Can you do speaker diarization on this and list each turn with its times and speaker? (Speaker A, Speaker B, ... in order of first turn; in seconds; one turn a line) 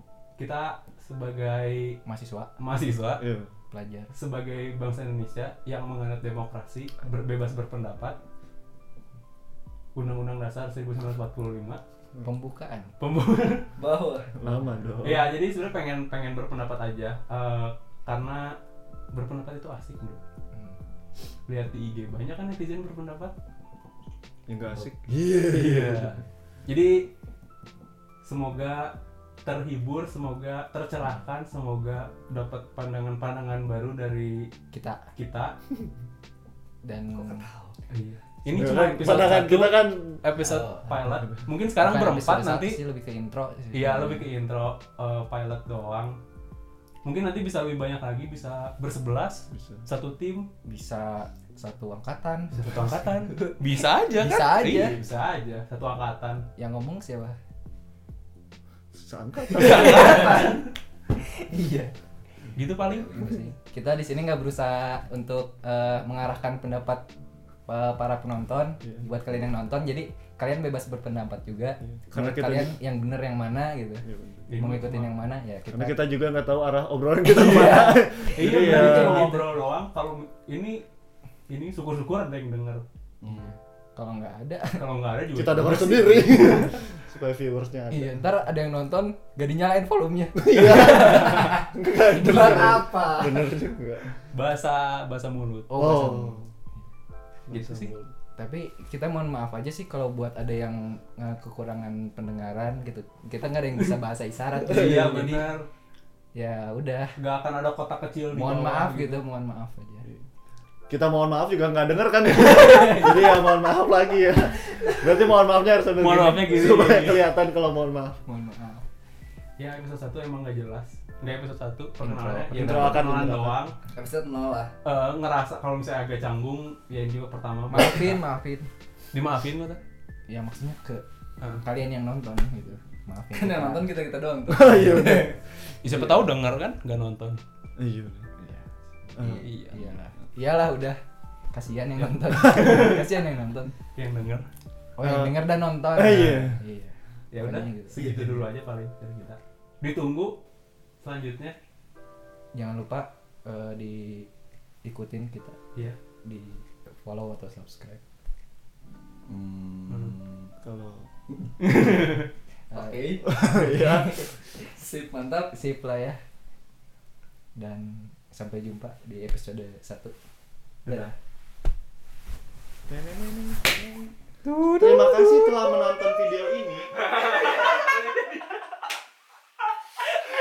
Speaker A: 0.4-2.0
Speaker B: 2.0-2.5
Speaker A: 2.6-3.2
Speaker C: 3.2-3.5
Speaker B: 3.7-4.1
Speaker A: 4.1-8.2
Speaker A: 9.9-11.8
Speaker B: 12.2-12.9
Speaker A: 13.0-13.6
Speaker D: 13.8-14.3
Speaker C: 14.3-15.3
Speaker A: 15.0-18.6
Speaker A: 19.1-20.2
Speaker A: 21.5-23.3
Speaker C: 24.5-26.2
Speaker A: 25.5-27.1
Speaker A: 28.2-34.5
Speaker B: 34.7-35.1
Speaker A: 35.1-35.5
Speaker B: 36.8-37.5
Speaker D: 37.1-37.8
Speaker A: 37.9-42.8
Speaker C: 38.5-40.2
Speaker D: 40.4-40.8
Speaker B: 41.8-44.3
Speaker A: 43.7-46.2
Speaker A: 47.0-50.5
Speaker C: 49.5-49.8
Speaker B: 50.6-52.9
Speaker A: 52.5-56.4
Speaker B: 54.1-55.0
Speaker B: 56.5-57.4
Speaker C: 58.9-60.5
Speaker A: 59.5-60.7
Speaker B: 59.6-60.5
Speaker B: 61.2-61.9
Speaker A: 62.5-63.2
Speaker D: 62.9-63.4
Speaker B: 63.1-67.0
Speaker B: 67.7-74.0
Speaker C: 71.8-72.7
Speaker C: 74.0-74.5
Speaker A: 74.5-75.1
Speaker B: 74.5-76.0
Speaker C: 75.7-79.3
Speaker B: 77.2-79.5
Speaker A: 78.3-80.8
Speaker A: 81.5-82.8
Speaker D: 83.2-83.5
Speaker B: 83.3-84.8
Speaker A: 84.7-86.7
Speaker C: 85.3-88.2
Speaker B: 87.9-92.9
Speaker C: 90.3-94.2
Speaker D: 92.2-93.5
Speaker A: 94.3-95.7
Speaker B: 95.7-96.4
Speaker C: 95.8-96.5
Speaker C: 97.5-98.1
Speaker A: 97.5-97.9
Speaker B: 98.4-105.5
Speaker A: 104.6-105.7
Speaker B: 106.3-107.1
Speaker A: 107.2-109.2
Speaker B: 108.3-110.0
Speaker C: 110.9-118.2
Speaker B: 112.3-113.5
Speaker A: 116.0-117.3
Speaker B: 118.2-118.8
Speaker A: 119.6-123.8
Speaker B: 122.0-123.0
Speaker C: 122.5-123.6
Speaker D: 123.9-124.7
Speaker A: 124.8-128.2
Speaker B: 127.7-128.7
Speaker A: 129.1-129.8
Speaker B: 130.3-131.0
Speaker B: 131.6-133.9
Speaker D: 133.3-135.4
Speaker C: 134.5-135.4
Speaker A: 135.8-137.4
Speaker C: 137.8-138.3
Speaker B: 138.4-138.6
Speaker C: 139.1-139.4
Speaker D: 139.2-140.0
Speaker A: 139.4-139.8
Speaker B: 139.6-141.0
Speaker B: 141.5-143.7
Speaker A: 142.0-143.1
Speaker A: 143.9-144.5
Speaker B: 145.0-148.0
Speaker C: 145.0-146.6
Speaker A: 147.3-150.4
Speaker A: 151.0-151.6
Speaker B: 152.5-154.3
Speaker B: 154.8-155.6
Speaker B: 156.2-158.0
Speaker D: 159.2-160.5
Speaker A: 159.9-160.1
Speaker C: 160.6-161.1
Speaker D: 161.3-161.9
Speaker A: 161.6-162.3
Speaker B: 162.7-164.3
Speaker D: 162.7-163.6
Speaker C: 163.2-164.4
Speaker D: 164.3-165.5
Speaker B: 165.5-166.2
Speaker B: 167.6-170.1
Speaker B: 170.8-171.1
Speaker C: 172.9-174.1
Speaker B: 174.4-175.6
Speaker C: 174.8-176.9
Speaker A: 177.0-178.4